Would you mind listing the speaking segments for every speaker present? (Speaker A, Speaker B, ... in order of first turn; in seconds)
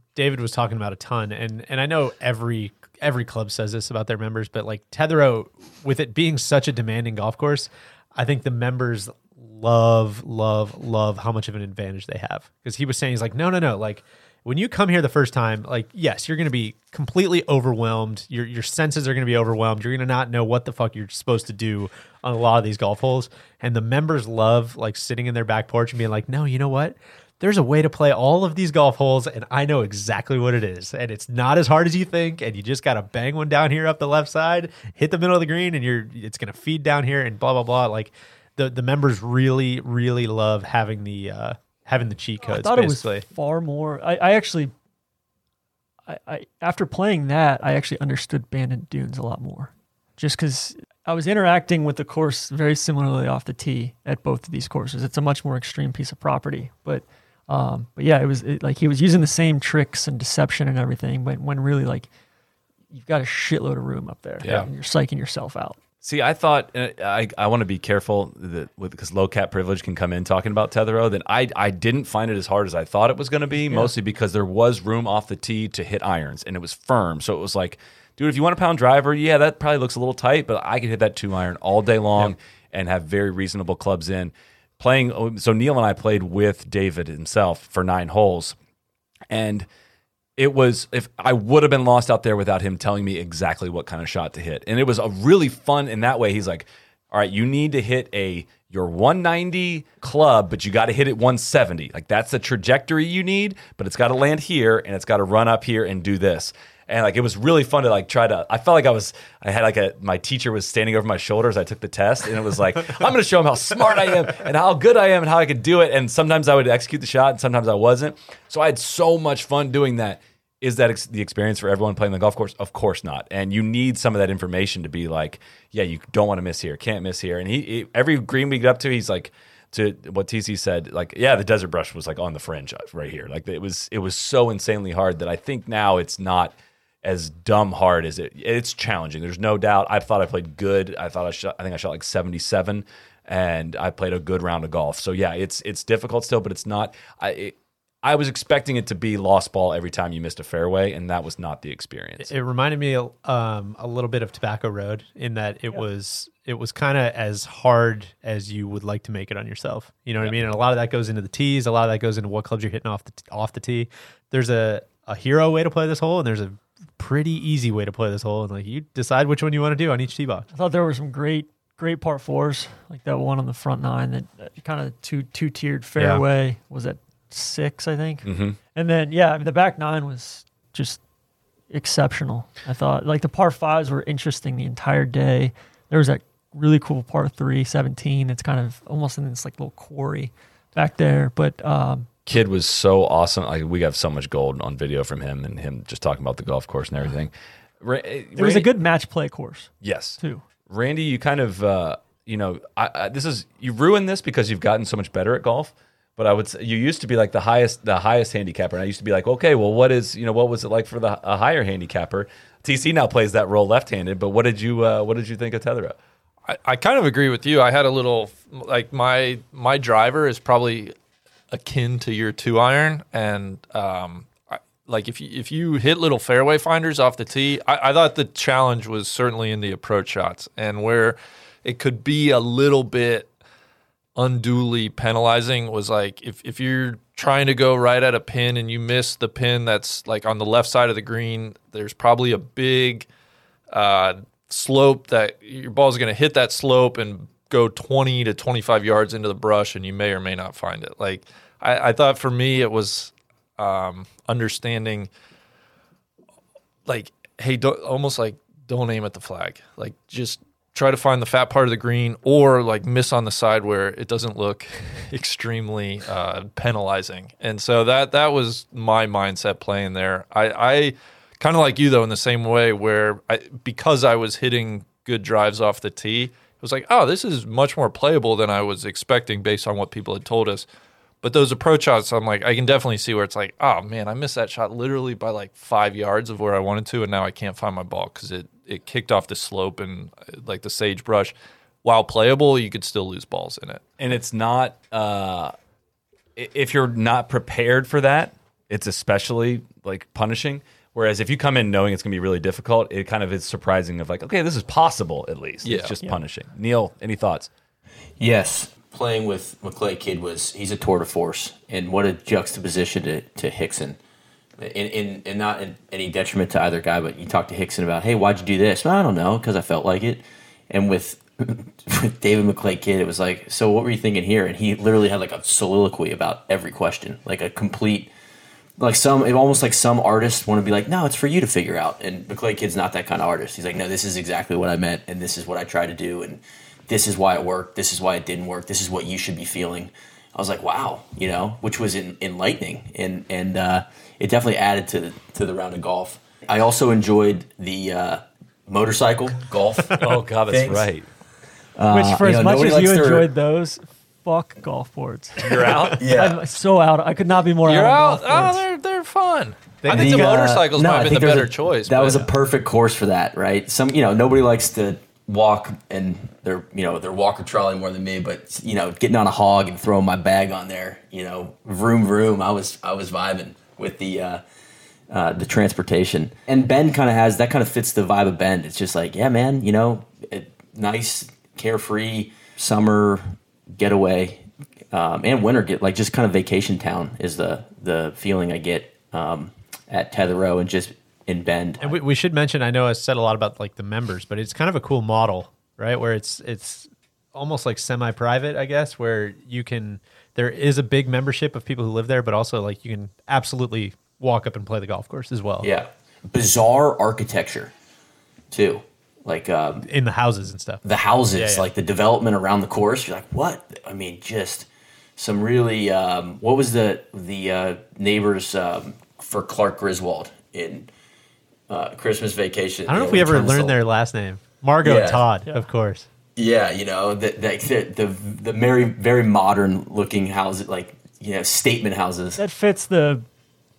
Speaker A: 0.1-43.2, 152.2-170.5, 359.8-360.3, 391.8-405.7, 409.8-411.7, 422.9-426.1
Speaker B: 42.5-44.7, 46.1-62.1, 62.9-65.8, 73.6-73.9, 170.5-181.0, 181.7-192.1, 198.3-200.4, 351.9-358.6, 432.4-433.2
Speaker C: 64.4-64.7, 66.0-88.5, 89.3-89.7, 90.4-152.3, 178.2-178.6, 192.2-198.7, 199.8-215.9, 294.0-295.5, 296.4-307.5, 350.0-351.1, 355.4-356.0
Speaker D: 216.4-220.9, 221.5-233.3, 234.2-243.1, 243.7-255.1, 256.9-280.7, 281.2-293.8, 305.6-306.0, 357.6-362.3
Speaker E: 308.2-314.0, 314.6-328.1, 328.8-350.9, 351.8-353.3, 356.0-356.4, 359.9-374.4, 375.1-383.2, 383.7-392.0, 405.6-407.7, 408.5-409.8, 410.8-420.9, 421.7-423.8, 424.8-425.3, 426.4-432.4